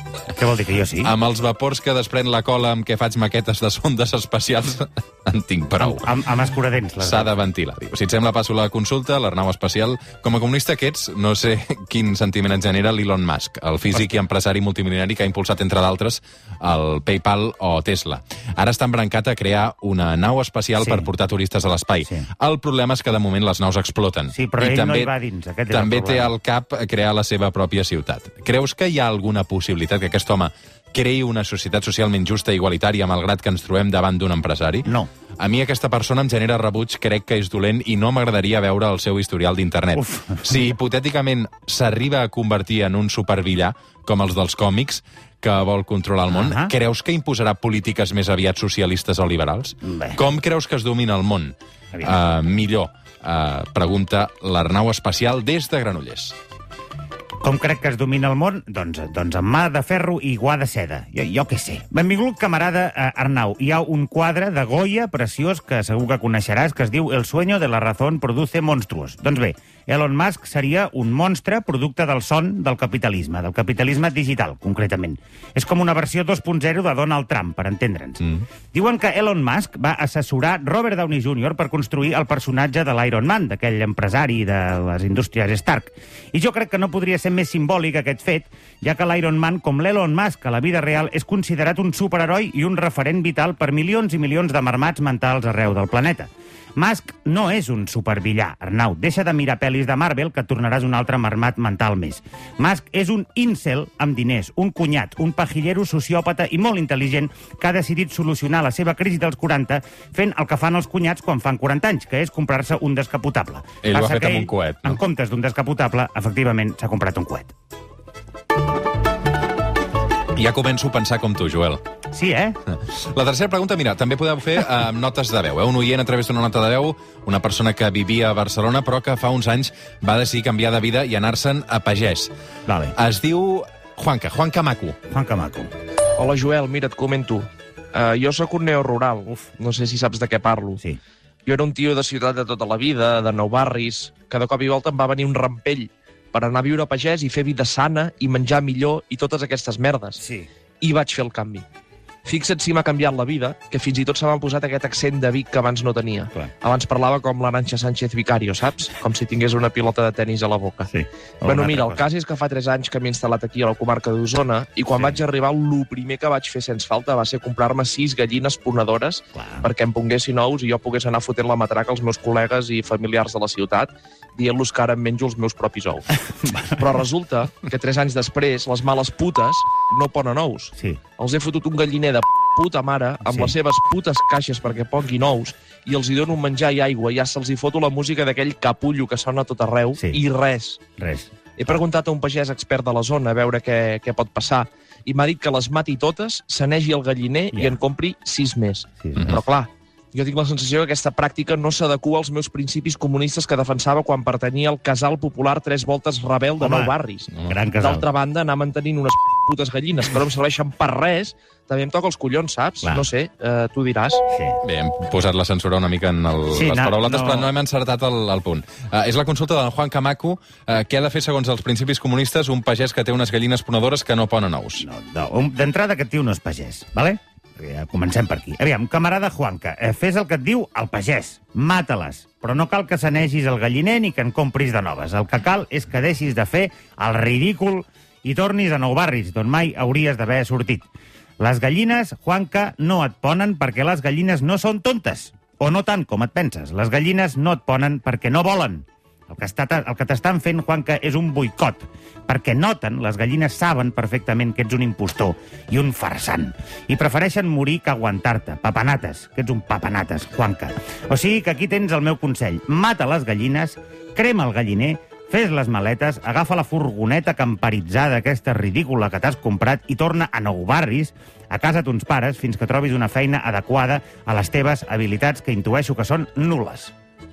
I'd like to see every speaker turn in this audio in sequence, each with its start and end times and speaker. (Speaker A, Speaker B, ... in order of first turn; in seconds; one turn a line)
Speaker A: 0.3-1.1
Speaker B: 1.0-6.1
Speaker A: 5.8-7.4
Speaker B: 7.0-25.1
Speaker A: 20.8-21.1
Speaker A: 24.3-26.3
Speaker B: 25.7-56.4
Speaker A: 34.9-35.1
Speaker A: 40.0-40.6
Speaker A: 46.3-46.7
Speaker A: 49.8-50.2
Speaker A: 57.4-117.5
Speaker B: 113.8-115.0
Speaker B: 120.3-121.8
Speaker A: 122.1-122.6
Speaker B: 122.7-132.3
Speaker A: 132.7-133.0
Speaker B: 133.0-135.0
Speaker A: 135.1-135.7
Speaker C: 136.2-140.8
Speaker C: 141.4-150.2
Speaker A: 150.2-150.5
Speaker C: 150.8-151.7
Speaker C: 152.2-160.9
Speaker A: 160.9-162.1
Speaker C: 161.4-190.8
Speaker A: 164.9-165.2
Speaker A: 169.3-169.7
Speaker A: 176.4-176.9
Speaker A: 183.2-183.6
Speaker A: 190.0-190.2
Speaker A: 191.0-191.8
Speaker C: 191.6-207.3
Speaker A: 197.5-197.8
Speaker A: 199.0-199.4
Speaker A: 206.6-208.1
Speaker C: 207.8-214.2
Speaker A: 214.3-214.6
Speaker B: 214.6-224.9
Speaker A: 216.5-217.5
Speaker A: 224.8-240.9
Speaker A: 241.4-276.9